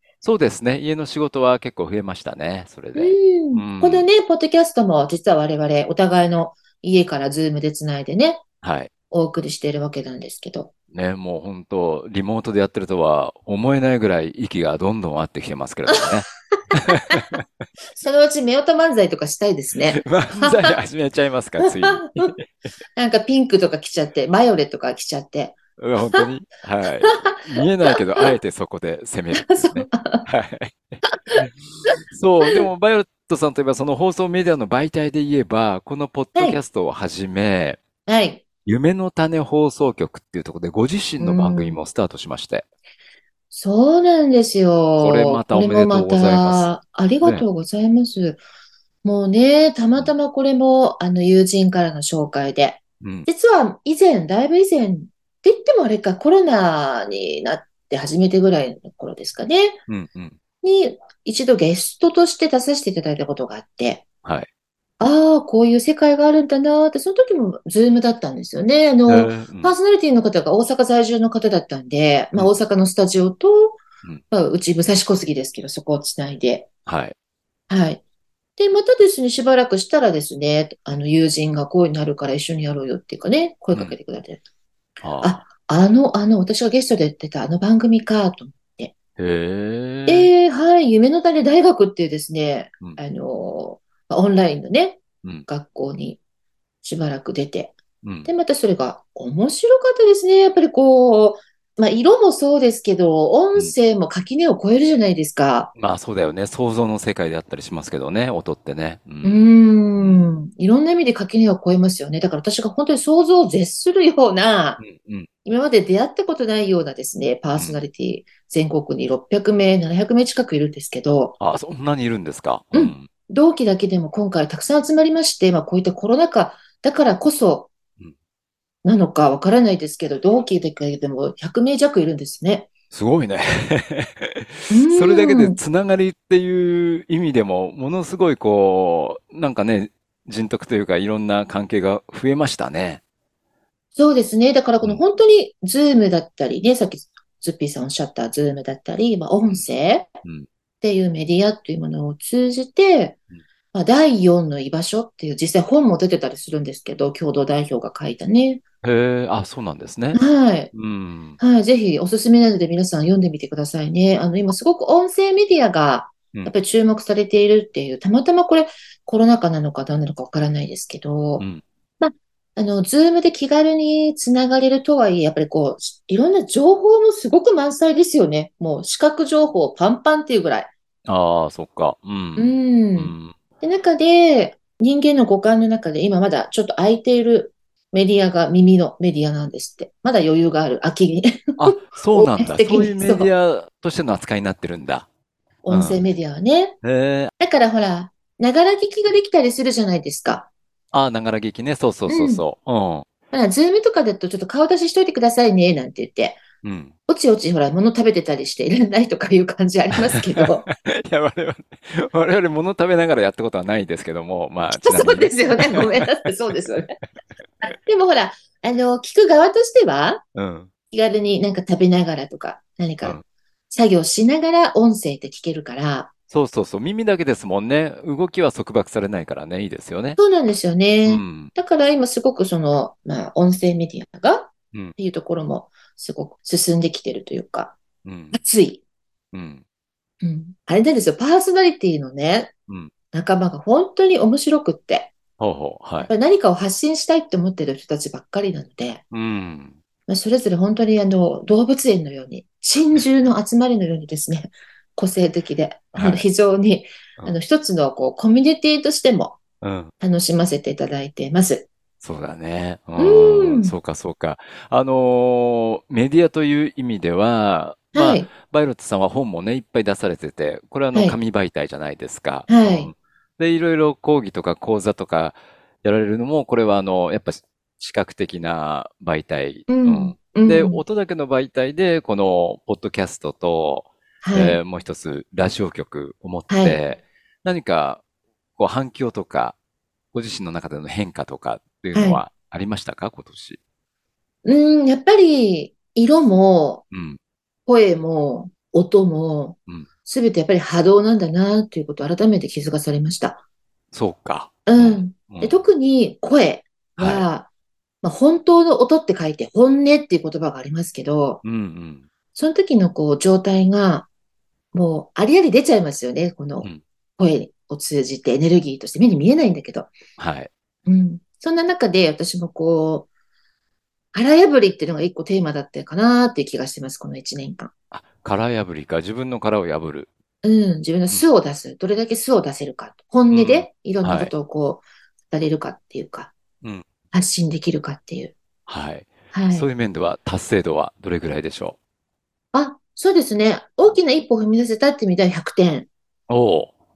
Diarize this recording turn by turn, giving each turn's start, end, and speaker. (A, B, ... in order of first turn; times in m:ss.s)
0:00.2-0:04.1 A
0:02.9-0:08.4 B
0:08.6-0:08.9 A
0:09.1-0:10.7 B
0:10.9-0:17.4 A
0:16.7-0:17.4 B
0:17.9-0:20.8 B
0:19.9-0:22.4 A
0:21.6-0:22.3 B
0:23.0-0:25.6 B
0:25.8-0:31.5 A
0:27.0-0:28.3 B
0:29.4-0:30.2 B
0:31.0-0:31.9 B
0:32.1-0:37.8 A
0:36.3-0:36.6 B
0:38.0-0:38.4 B
0:38.6-0:42.6 A
0:41.2-0:41.8 B
0:43.5-0:48.4 B
0:45.0-0:46.7 A
0:49.0-0:59.8 B
0:53.0-0:53.3 A
0:59.9-1:00.4 A
1:00.6-1:04.0 B
1:05.0-1:13.8 B
1:09.1-1:09.7 A
1:14.3-1:16.7 B
1:16.8-1:17.1 A
1:17.7-1:18.0 B
1:18.6-1:24.4 B
1:25.0-1:25.4 A
1:25.2-1:28.9 B
1:29.2-1:30.3 A
1:30.1-1:36.2 B
1:36.8-1:45.7 B
1:38.0-1:38.3 A
1:45.8-1:50.3 A
1:49.2-1:54.8 B
1:54.8-1:55.3 A
1:55.4-2:01.4 B
2:01.4-2:03.1 A
2:02.7-2:07.7 B
2:08.8-2:12.7 B
2:12.9-2:23.0 A
2:14.7-2:15.6 B
2:24.0-2:30.1 B
2:30.8-2:33.2 B
2:33.7-2:38.6 B
2:38.8-2:40.2 A
2:40.1-2:40.7 B
2:40.7-2:41.4 A
2:41.4-2:51.4 B
2:52.0-3:00.7 B
3:01.1-3:03.3 A
3:02.4-3:11.4 B
3:11.6-3:15.0 A
3:12.1-3:13.3 B
3:15.6-3:16.8 B
3:15.7-3:16.0 A
3:16.8-3:17.3 A
3:17.4-3:20.5 B
3:20.9-3:23.0 A
3:22.1-3:22.4 B
3:23.3-3:26.4 B
3:26.6-3:26.9 A
3:27.1-3:30.7 B
3:30.1-3:36.1 A
3:34.7-3:37.0 B
3:37.6-3:40.2 B
3:40.3-3:40.7 A
3:40.9-3:43.2 B
3:43.7-3:46.1 B
3:46.3-3:50.2 A
3:50.2-3:57.7 B
3:51.0-3:51.5 A
3:58.0-3:58.4 A
3:58.3-3:58.8 B
3:59.3-3:59.6 A
4:00.2-4:02.5 B
4:03.1-4:05.1 B
4:05.4-4:06.1 A
4:06.0-4:09.0 B
4:09.1-4:09.8 A
4:10.1-4:19.4 B
4:15.9-4:16.2 A
4:19.6-4:19.9 A
4:20.0-4:21.7 B
4:22.0-4:48.0 A
4:23.0-4:23.7 B
4:27.9-4:28.3 B
4:32.5-4:32.9 B
4:39.7-4:40.8 B
4:44.2-4:44.6 B
4:46.5-4:46.8 B
4:48.6-4:49.5 A
4:50.1-4:53.6 A
4:51.9-4:52.2 B
4:54.4-4:56.8 B
4:56.9-4:57.2 A
4:57.7-5:03.4 B
5:03.9-5:05.6 A
5:04.6-5:07.5 B
5:07.0-5:07.3 A
5:08.0-5:11.4 B
5:11.4-5:12.0 A
5:12.3-5:14.1 B
5:14.7-5:19.9 B
5:20.2-5:20.5 A
5:20.8-5:23.1 B
5:24.1-5:27.7 B
5:27.9-5:30.1 A
5:30.4-5:36.3 B
5:33.3-5:34.3 A
5:37.1-5:38.3 B
5:38.7-5:41.8 A
5:39.3-5:39.7 B
5:42.5-5:45.9 B
5:46.3-5:46.7 A